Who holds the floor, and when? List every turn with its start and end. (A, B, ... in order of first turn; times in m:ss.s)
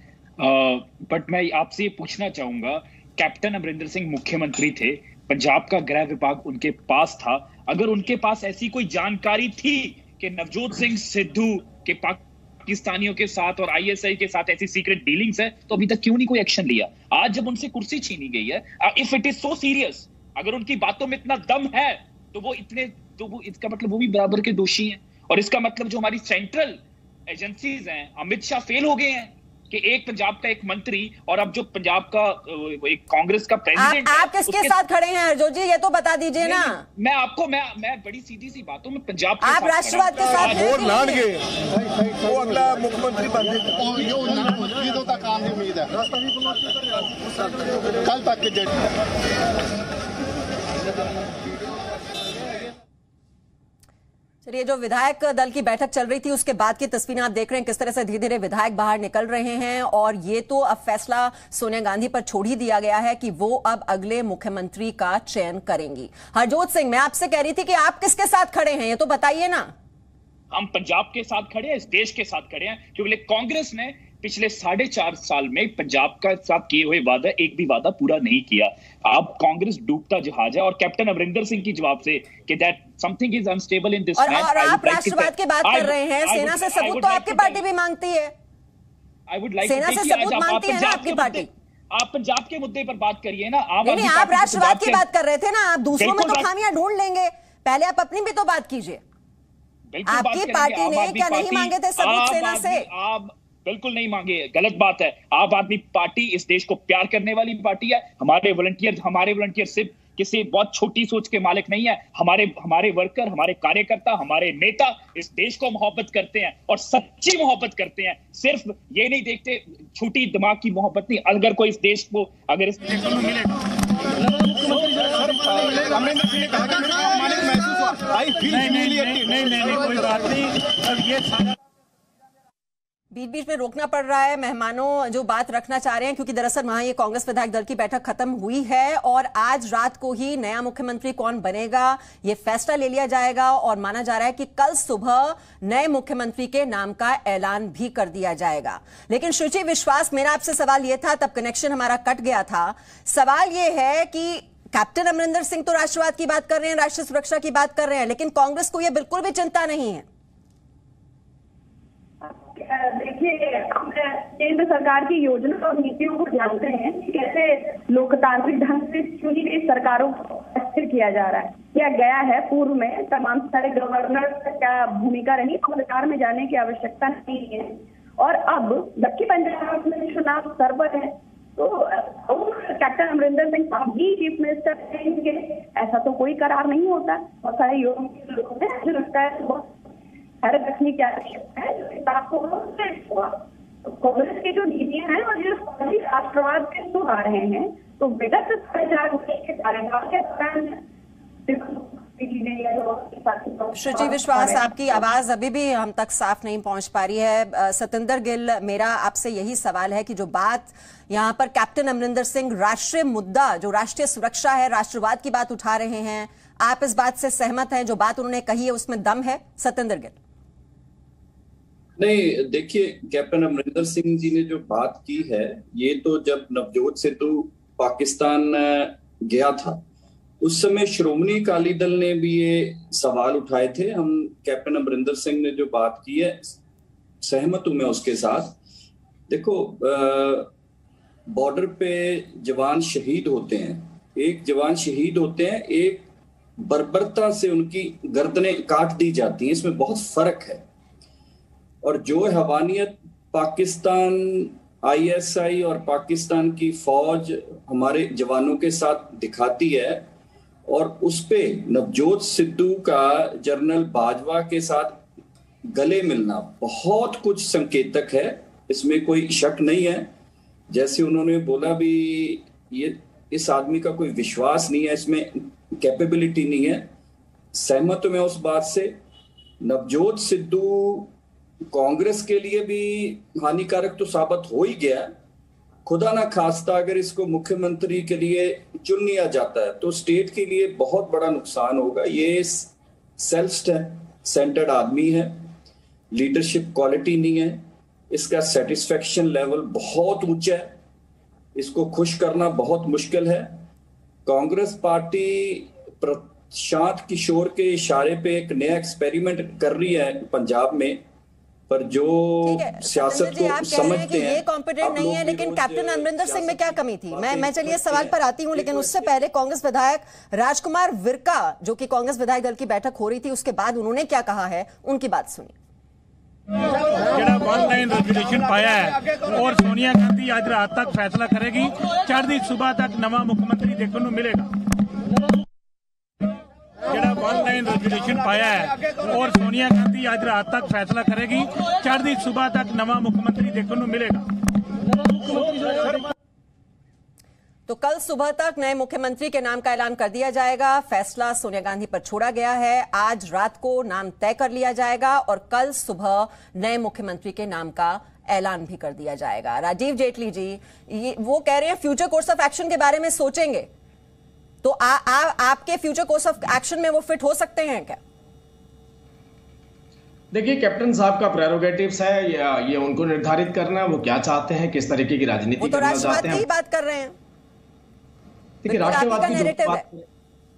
0:00.4-0:34.8 A
0:33.8-0:36.8 B
0:36.4-0:41.2 A
0:39.4-0:41.3 B
0:42.3-0:45.9 C
0:48.0-0:48.6 C
0:54.4-1:09.7 B
1:10.5-1:27.6 A
1:24.2-1:28.3 B
1:29.3-1:35.0 A
1:29.6-1:31.5 B
1:33.8-1:39.0 B
1:36.0-1:36.5 A
1:39.9-2:03.3 A
1:40.1-1:42.8 B
2:03.1-2:03.5 D
2:08.4-2:11.6 D
2:13.1-2:40.1 B
2:42.2-3:09.7 E
3:10.4-3:13.3 E
3:14.0-3:20.7 E
3:21.5-3:24.5 E
3:23.7-3:40.2 B
3:42.0-3:49.8 F
3:50.4-3:56.6 F
3:57.2-3:58.6 F
3:59.3-4:00.5 F
4:01.3-4:06.1 F
4:06.6-4:10.6 F
4:11.8-4:20.1 F
4:20.7-4:25.0 F
4:25.7-4:30.1 F
4:30.7-4:36.9 F
4:37.5-4:39.0 F
4:39.6-4:41.1 F
4:41.7-4:45.1 F
4:45.9-4:55.5 F
4:56.1-5:00.7 F
5:01.6-5:03.6 F
5:04.3-5:11.0 F
5:11.7-5:19.1 F
5:12.4-5:25.5 B
5:27.1-5:34.5 D
5:36.9-5:44.3 D
5:45.3-5:45.9 D
5:47.7-6:03.7 B
6:04.6-6:08.0 B
6:10.3-6:16.4 G
6:15.6-6:17.1 B
6:18.6-6:20.0 G
6:18.7-6:19.8 B